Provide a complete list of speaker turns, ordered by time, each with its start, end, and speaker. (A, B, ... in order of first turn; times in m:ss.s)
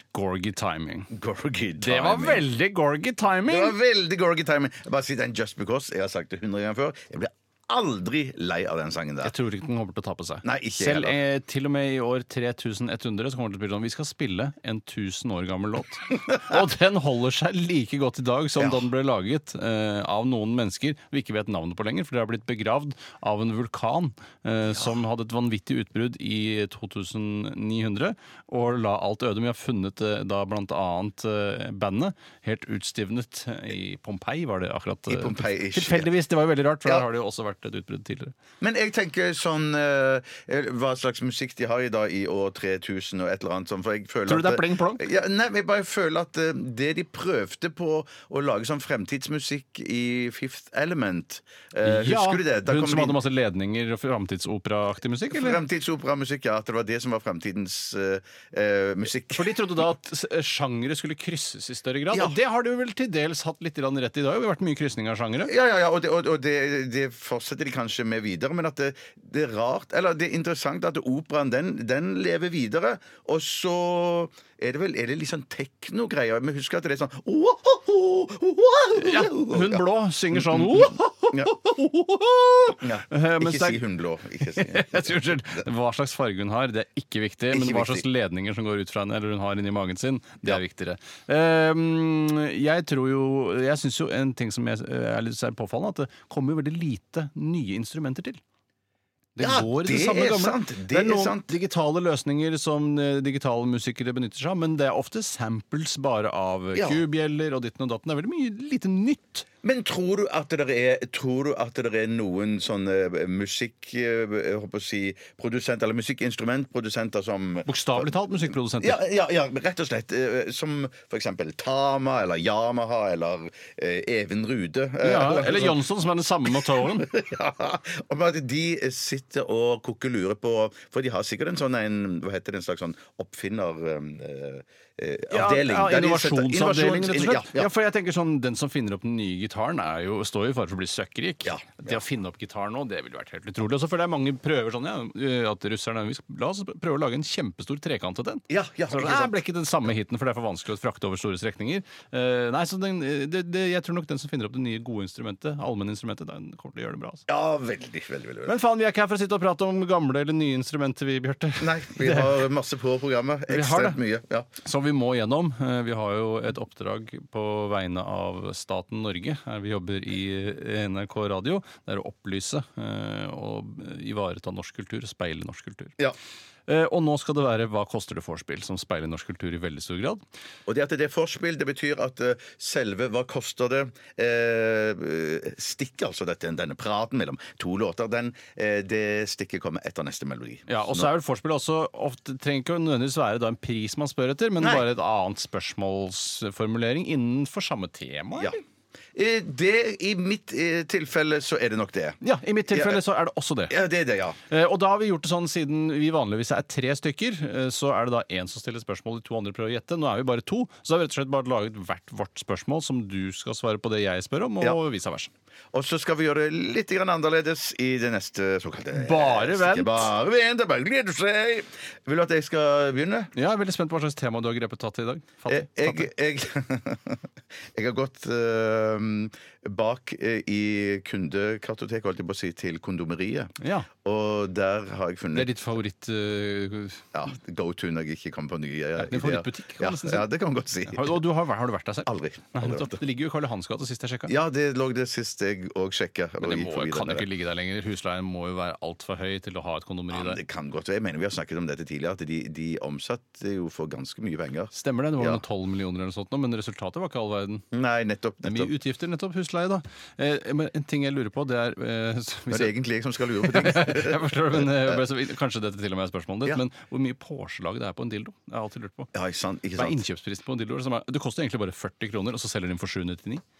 0:00.1-0:01.1 A
0:01.1-0:02.4 B
0:01.8-0:03.8 A
0:03.5-0:09.3 B
0:09.2-0:38.4 A
0:10.4-0:11.2 B
0:18.6-0:18.8 B
0:35.1-0:36.1 B
0:38.6-0:53.2 B
0:44.3-0:45.0 A
0:51.8-0:55.6 A
0:55.3-0:59.6 B
0:59.3-1:05.5 A
1:05.4-1:21.5 B
1:19.0-1:23.8 A
1:22.8-1:25.6 B
1:24.4-1:38.4 A
1:27.5-1:28.0 B
1:39.4-1:49.5 A
1:39.4-1:41.5 B
1:46.8-1:47.0 B
1:49.6-1:58.1 B
1:57.7-1:59.0 A
1:58.8-2:05.8 B
2:05.0-2:07.1 A
2:06.5-2:17.7 B
2:15.3-2:37.3 A
2:21.4-2:22.0 B
2:28.5-2:29.4 B
2:37.3-2:38.5 B
2:38.5-2:42.4 A
2:41.6-2:44.5 B
2:43.5-2:44.0 A
2:44.6-2:56.0 A
2:56.7-3:00.2 A
3:00.7-3:11.1 B
3:10.7-3:18.6 A
3:19.2-3:22.2 B
3:22.2-3:23.8 A
3:22.7-3:23.0 B
3:23.7-3:24.4 B
3:24.5-3:35.3 A
3:35.7-3:43.3 B
3:39.0-3:40.1 A
3:43.4-3:46.1 A
3:45.5-3:55.5 B
3:53.6-3:53.9 A
3:55.3-3:57.1 A
3:57.1-4:01.2 B
3:59.0-4:00.3 A
4:00.9-4:04.3 A
4:02.1-4:03.0 B
4:04.3-4:07.3 B
4:06.4-4:10.4 A
4:10.1-4:15.4 B
4:14.7-4:17.7 A
4:17.7-4:18.7 B
4:18.4-4:22.7 A
4:22.5-4:25.0 B
4:23.4-4:29.1 A
4:29.1-4:30.0 B
4:29.8-4:33.4 A